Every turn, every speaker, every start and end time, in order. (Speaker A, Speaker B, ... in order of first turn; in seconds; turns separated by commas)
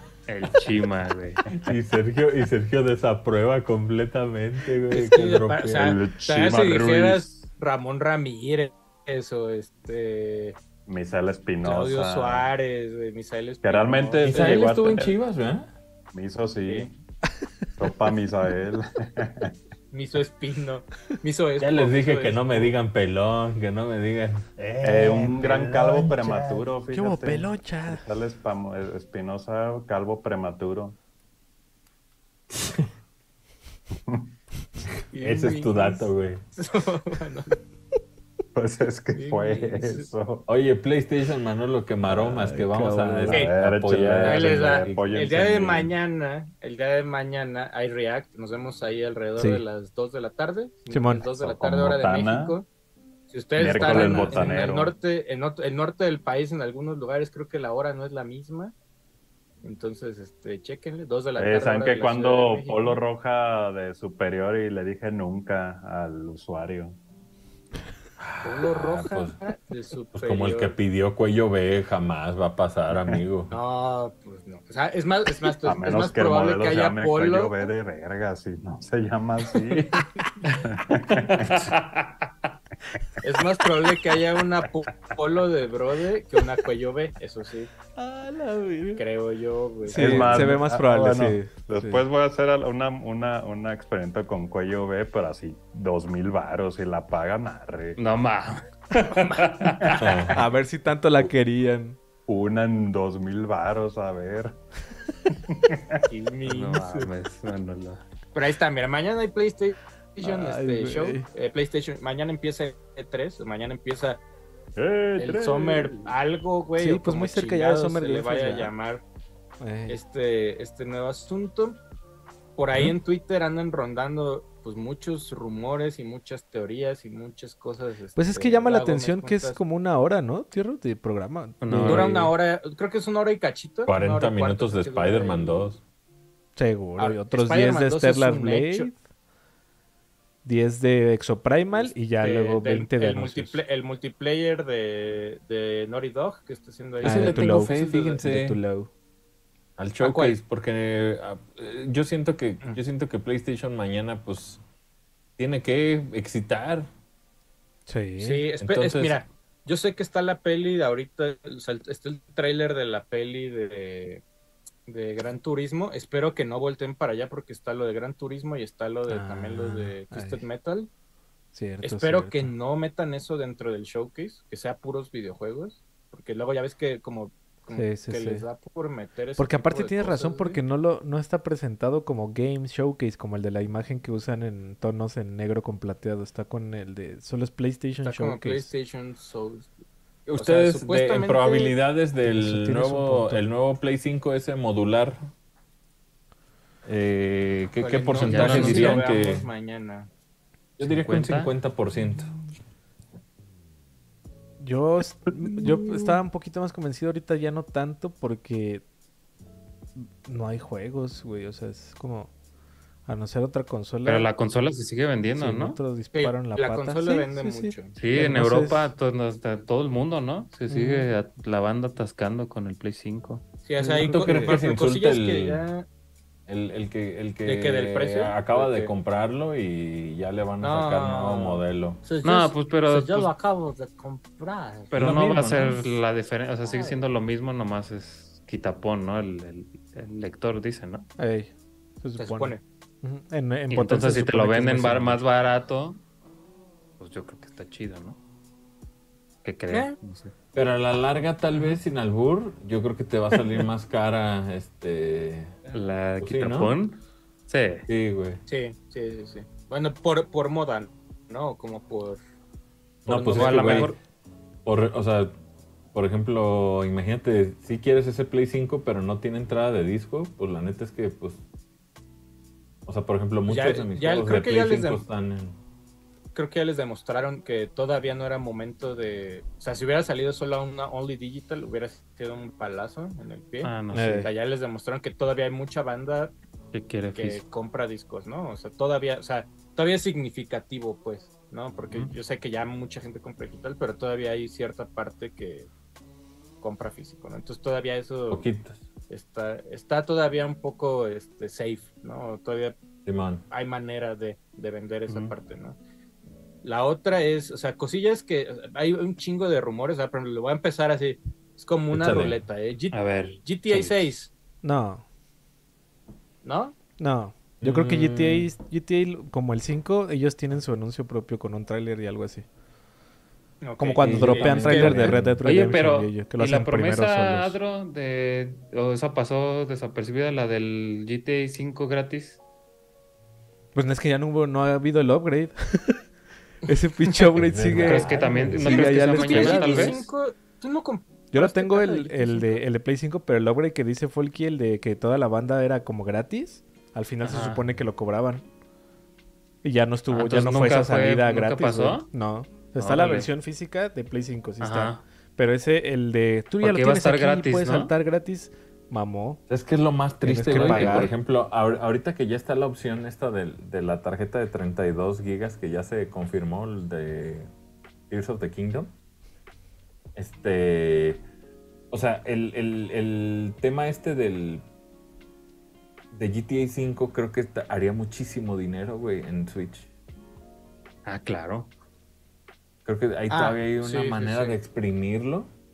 Speaker A: 0.3-1.4, Speaker B: 1.5-5.9, Speaker C: 4.9-10.6, Speaker D: 5.8-7.4, Speaker D: 10.9-12.5, Speaker C: 11.6-15.0, Speaker D: 13.6-15.2, Speaker B: 14.2-15.7, Speaker D: 16.1-16.9, Speaker D: 17.8-19.6, Speaker C: 19.9-22.7, Speaker B: 21.6-26.7, Speaker D: 24.8-31.0, Speaker E: 26.9-28.1, Speaker B: 32.5-32.9, Speaker C: 35.1-37.6, Speaker B: 35.2-36.4, Speaker D: 38.5-40.5, Speaker C: 39.1-40.1, Speaker B: 40.5-45.3, Speaker E: 42.1-43.4, Speaker D: 43.3-45.9, Speaker C: 44.2-52.7, Speaker E: 49.4-49.6, Speaker E: 50.9-51.3, Speaker D: 51.4-52.6, Speaker C: 53.3-58.7, Speaker D: 53.6-54.9, Speaker E: 53.9-54.5, Speaker B: 54.0-54.4, Speaker C: 59.6-63.0, Speaker D: 61.4-67.0, Speaker B: 68.2-69.4, Speaker C: 68.4-70.8, Speaker B: 70.1-73.5, Speaker C: 73.5-77.5, Speaker D: 75.7-81.7, Speaker C: 79.6-80.0, Speaker A: 81.2-82.3, Speaker C: 83.2-87.7, Speaker E: 88.0-89.0, Speaker C: 89.0-90.5, Speaker D: 89.9-98.0, Speaker E: 89.9-92.0, Speaker A: 98.0-100.0, Speaker D: 99.8-100.3, Speaker B: 100.0-100.5, Speaker E: 100.3-102.0, Speaker D: 102.3-104.6, Speaker D: 105.3-106.0, Speaker C: 106.1-107.1, Speaker A: 106.5-108.0, Speaker C: 108.3-114.2, Speaker E: 110.2-111.3, Speaker D: 114.8-116.1, Speaker C: 115.2-119.0, Speaker E: 116.8-118.7, Speaker E: 119.6-120.0, Speaker C: 119.9-121.8, Speaker C: 122.6-129.6, Speaker E: 128.2-132.2, Speaker A: 131.6-132.3, Speaker C: 131.8-135.8, Speaker B: 133.9-135.8, Speaker E: 136.6-139.0, Speaker C: 137.0-138.9, Speaker E: 140.4-143.6, Speaker C: 141.7-148.2, Speaker B: 147.0-148.6, Speaker E: 147.0-148.9, Speaker B: 149.8-154.6, Speaker C: 150.0-150.4, Speaker B: 155.4-156.9, Speaker E: 157.9-158.5, Speaker C: 158.2-164.2, Speaker B: 158.6-159.2, Speaker C: 164.9-170.9, Speaker E: 169.1-170.4, Speaker E: 171.5-172.5, Speaker C: 171.8-180.6, Speaker E: 177.8-178.5, Speaker E: 179.4-188.7, Speaker C: 188.0-189.7, Speaker B: 190.3-195.3, Speaker C: 190.4-191.8, Speaker E: 192.2-193.4, Speaker B: 196.8-199.5, Speaker C: 197.8-200.1, Speaker A: 198.2-199.1, Speaker B: 200.8-202.3, Speaker A: 200.8-201.5, Speaker E: 204.6-208.8, Speaker E: 210.0-212.3, Speaker E: 213.1-214.3, Speaker A: 214.1-215.8, Speaker E: 215.3-218.9, Speaker C: 216.1-218.0, Speaker A: 218.0-223.4, Speaker E: 220.7-221.1, Speaker C: 223.6-225.9, Speaker E: 223.8-224.6, Speaker B: 224.0-225.6, Speaker B: 226.5-232.0, Speaker C: 227.4-228.9, Speaker C: 230.6-235.0, Speaker A: 232.2-233.3, Speaker A: 234.9-241.1, Speaker B: 234.9-235.9, Speaker E: 235.0-235.6, Speaker C: 236.6-237.1, Speaker E: 241.2-245.2, Speaker C: 242.2-242.6, Speaker A: 243.7-246.0, Speaker A: 247.0-248.2, Speaker A: 249.4-250.3, Speaker C: 249.7-249.9, Speaker B: 250.5-255.6, Speaker A: 255.7-257.9, Speaker B: 256.2-256.8, Speaker B: 257.9-258.4, Speaker C: 258.5-262.2, Speaker B: 263.1-263.9, Speaker C: 263.1-264.0, Speaker A: 263.3-264.0, Speaker B: 264.6-265.3, Speaker B: 265.9-271.4, Speaker B: 272.9-275.6, Speaker C: 273.5-275.1, Speaker C: 276.4-286.4, Speaker A: 283.6-284.2, Speaker E: 283.9-284.3, Speaker A: 286.7-287.4, Speaker C: 287.1-295.7, Speaker C: 296.6-298.5, Speaker B: 298.3-298.8, Speaker C: 299.1-302.8, Speaker B: 303.1-303.4, Speaker C: 303.5-305.8, Speaker C: 306.6-314.3, Speaker B: 311.9-312.4, Speaker A: 312.9-314.1, Speaker E: 314.6-315.1, Speaker C: 316.4-316.8, Speaker E: 317.0-322.4, Speaker B: 317.6-318.5, Speaker C: 323.6-325.2, Speaker E: 323.8-327.6, Speaker B: 324.0-325.4, Speaker A: 325.4-332.4, Speaker E: 333.8-336.0, Speaker E: 336.7-340.0, Speaker B: 337.4-338.9, Speaker A: 337.8-340.1, Speaker C: 338.6-342.6, Speaker E: 341.3-348.4, Speaker A: 347.2-347.7, Speaker E: 349.6-359.4, Speaker A: 350.1-352.1, Speaker A: 352.8-353.3, Speaker A: 354.6-355.0, Speaker A: 356.6-357.9, Speaker B: 359.5-367.5, Speaker E: 360.2-361.1, Speaker A: 360.5-361.1, Speaker B: 368.1-368.9, Speaker B: 370.2-371.2, Speaker B: 371.9-374.6, Speaker B: 376.1-379.9, Speaker A: 381.1-381.7, Speaker B: 382.9-385.5, Speaker C: 383.3-384.6